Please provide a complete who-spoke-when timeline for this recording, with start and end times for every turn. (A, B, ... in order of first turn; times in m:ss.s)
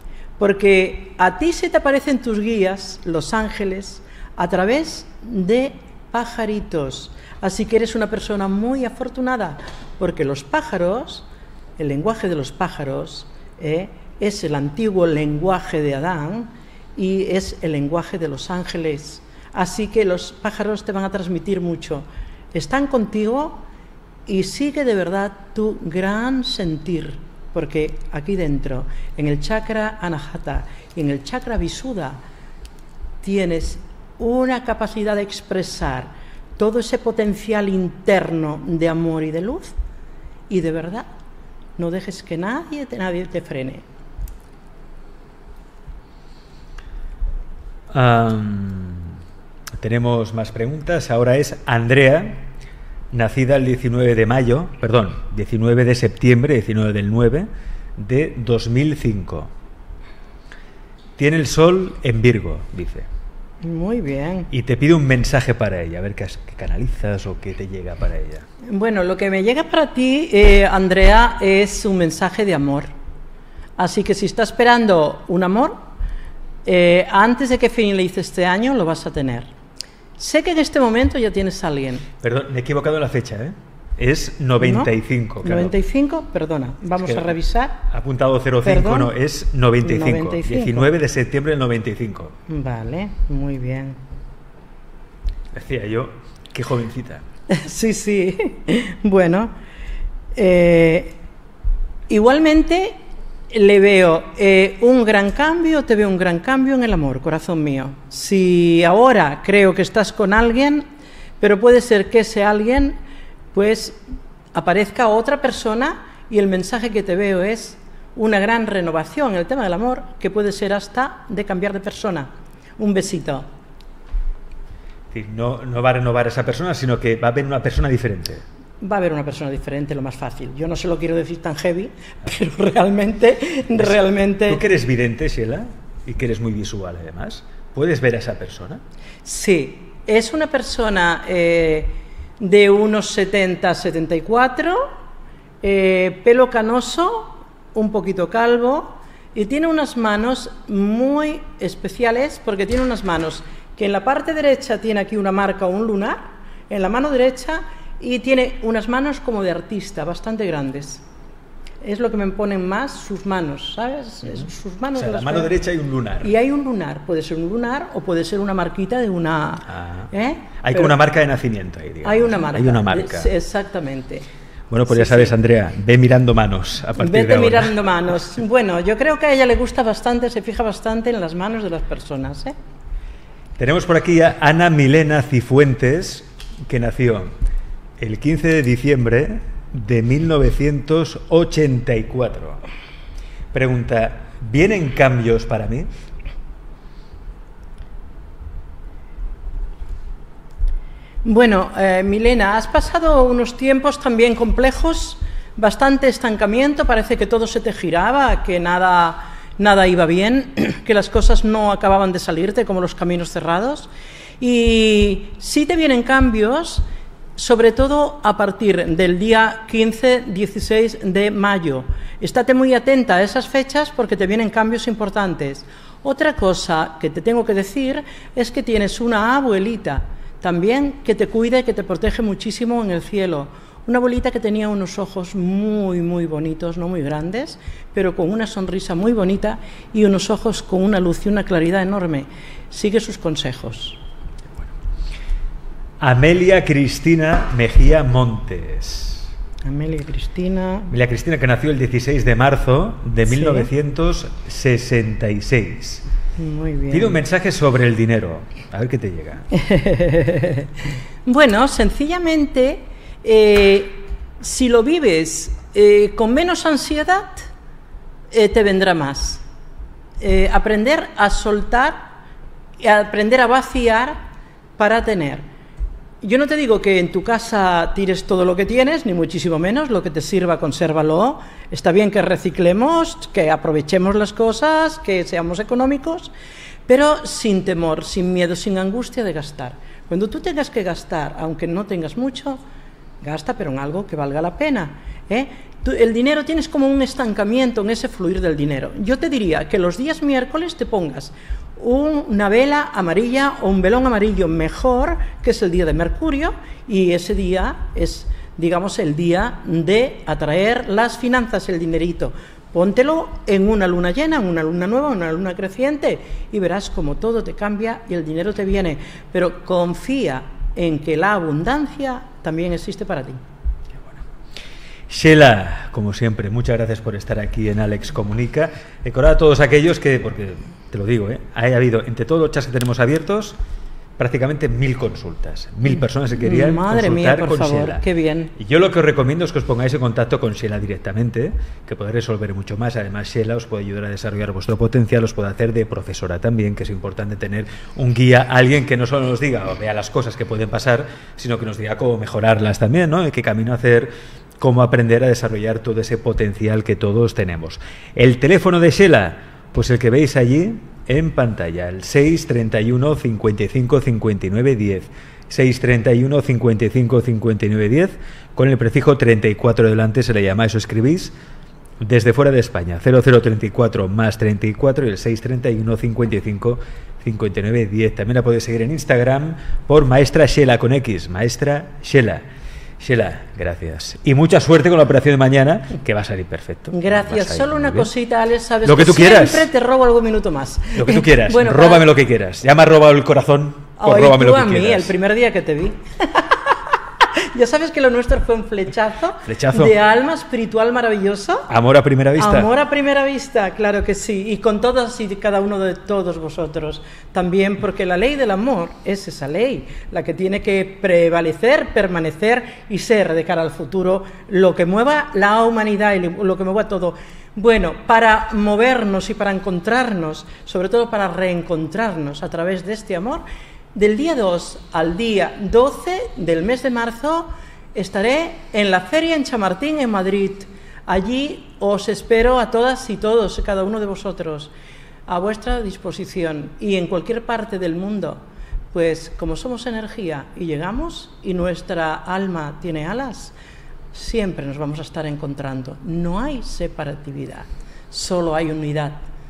0:00.4-0:11.3 A
0:11.8-0:23.6 A
0:24.3-0:32.2 A
0:33.2-0:39.8 A
0:40.5-0:41.1 A
0:41.8-0:43.8 A
0:47.9-0:49.2 B
0:49.8-0:52.4 B
0:53.1-0:59.5 B
1:01.2-1:03.1 B
1:03.6-1:04.5 A
1:04.5-1:08.5 B
1:08.6-1:12.9 A
1:13.8-1:15.8 A
1:16.6-1:19.5 A
1:20.2-1:22.1 A
1:22.2-1:25.8 B
1:24.6-1:27.9 A
1:27.0-1:27.3 B
1:27.9-1:32.3 B
1:28.6-1:29.1 A
1:29.8-1:30.9 A
1:32.5-1:34.0 A
1:35.5-1:37.2 B
1:37.5-1:39.5 A
1:40.4-1:41.2 A
1:42.1-1:43.0 A
1:43.5-1:50.9 A
1:51.4-1:53.0 A
1:53.5-1:54.0 A
1:54.5-2:03.5 A
2:05.1-2:08.4 B
2:08.8-2:14.6 A
2:13.8-2:18.8 B
2:19.2-2:24.9 A
2:25.6-2:41.0 A
2:41.8-2:45.5 A
2:45.0-2:46.3 B
2:46.2-2:50.9 A
2:49.7-2:50.1 B
2:50.6-2:53.3 B
2:52.0-2:54.3 A
2:54.7-2:57.7 B
2:54.9-2:55.3 A
2:57.0-3:02.6 A
3:03.6-3:07.3 B
3:08.0-3:12.6 B
3:13.5-3:15.9 B
3:21.2-3:33.9 A
3:34.4-4:04.0 A
4:06.0-4:09.3 B
4:09.6-4:10.9 A
4:10.9-4:16.0 B
4:13.3-4:13.7 A
4:16.4-4:17.2 A
4:16.9-4:19.5 B
4:19.5-4:20.7 A
4:21.2-4:27.5 A
4:28.3-4:29.4 A
4:30.2-4:32.1 A
4:32.8-4:35.4 A
4:36.2-4:46.3 A
4:46.9-4:52.6 A
4:53.2-5:23.4 A
5:25.1-5:33.6 B
5:34.2-5:38.0 B
5:35.9-5:38.5 A
5:38.6-6:11.4 B
6:12.0-6:22.4 B
6:23.0-6:28.1 B
6:26.9-6:32.0 A
6:28.8-6:29.7 B
6:31.0-6:35.1 B
6:34.0-6:41.7 A
6:39.5-6:40.0 B
6:41.7-6:42.7 B
6:42.4-7:14.7 A
7:15.3-7:18.4 A
7:18.9-7:23.5 A
7:24.1-7:29.2 A